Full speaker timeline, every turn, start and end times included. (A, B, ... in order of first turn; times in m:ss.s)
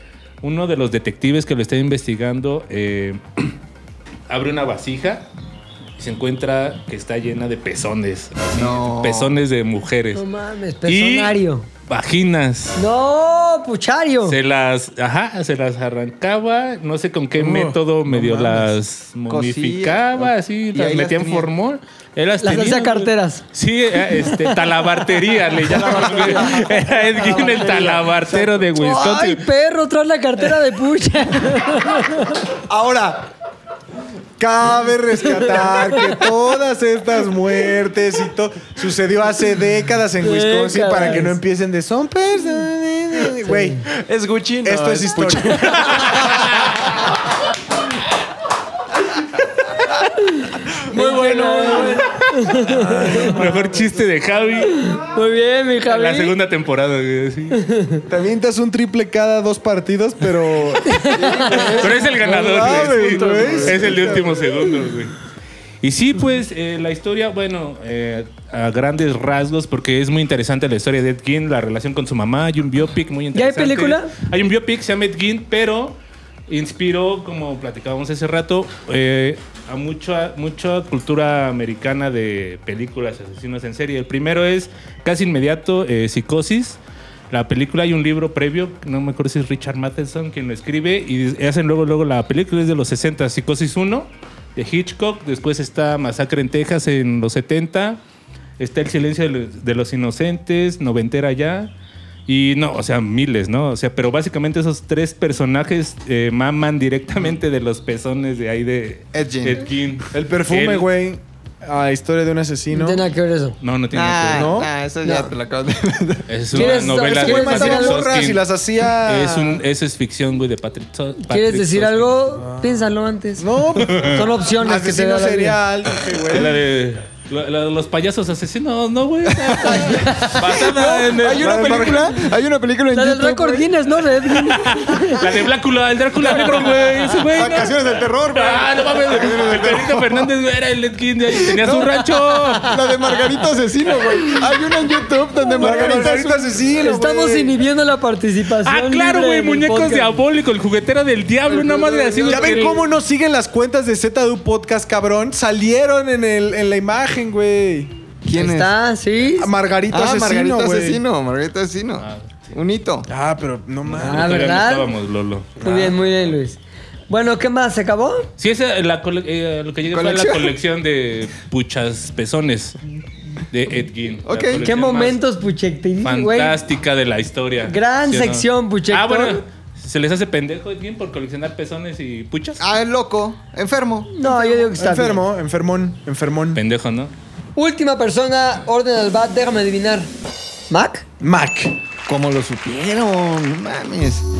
0:00.4-0:03.5 A
0:04.3-0:05.3 A
0:06.0-0:10.2 A
0:08.5-0:09.4 B
0:10.1-0:11.6 C
0:10.9-0:11.3 A
0:11.9-0:12.8 A
0:12.8-0:14.4 C
0:14.2-0:29.4 A
0:17.4-0:18.7 D
0:19.3-0:21.5 B
0:22.4-0:23.4 C
0:25.6-0:28.5 B
0:28.8-0:32.4 C
0:32.7-0:33.2 B
0:34.4-0:43.8 D
0:35.8-0:36.1 C
0:40.2-0:41.4 C
0:43.4-0:43.8 C
0:44.0-0:46.1 E
0:44.6-0:46.2 D
0:45.8-0:46.4 A
0:50.9-0:53.8 D
0:50.9-0:53.3 C
0:53.0-0:54.9 A
0:54.8-0:56.3 C
0:55.8-0:57.6 A
0:57.5-0:58.0 C
0:58.1-1:04.5 D
1:00.9-1:01.6 C
1:01.5-1:02.0 B
1:01.6-1:05.2 A
1:02.8-1:03.8 E
1:05.8-1:26.8 A
1:13.3-1:14.1 C
1:27.3-1:38.0 A
1:38.6-1:41.7 A
1:42.3-1:50.9 A
1:49.1-1:49.6 B
1:50.1-1:53.0 D
1:52.7-1:53.6 C
1:53.6-1:54.6 A
1:53.9-1:56.3 B
1:54.3-1:54.7 D
1:55.0-1:55.3 C
1:56.3-1:58.4 A
1:56.5-1:58.0 C
1:56.5-1:59.6 D
1:59.0-2:02.2 A
2:01.2-2:05.6 C
2:02.4-2:02.9 D
2:03.4-2:06.6 D
2:03.8-2:04.2 A
2:06.3-2:12.0 A
2:09.4-2:13.7 B
2:09.9-2:10.4 C
2:11.4-2:12.2 D
2:12.9-2:15.2 C
2:14.3-2:22.7 A
2:17.3-2:18.4 B
2:17.4-2:19.5 D
2:19.1-2:20.2 B
2:22.6-2:26.6 B
2:25.6-2:27.5 D
2:26.8-2:30.2 C
2:28.6-2:32.8 A
2:31.5-2:32.6 C
2:32.2-2:37.9 D
2:38.2-2:38.7 B
2:38.3-2:39.5 C
2:39.4-2:41.0 D
2:39.9-2:43.1 B
2:42.0-2:42.5 A
2:43.1-2:44.5 D
2:43.9-2:45.8 A
2:44.0-2:44.9 C
2:45.6-2:48.3 C
2:48.4-2:52.8 A
2:49.9-2:50.5 B
2:53.5-2:55.2 A
2:54.2-2:54.6 B
2:54.5-2:56.5 C
2:56.0-3:02.6 A
2:57.6-2:59.4 C
3:02.6-3:04.2 B
3:04.1-3:05.2 C
3:04.4-3:06.6 D
3:06.5-3:07.1 A
3:07.6-3:10.1 C
3:10.7-3:11.0 C
3:11.2-3:11.7 D
3:12.1-3:14.2 B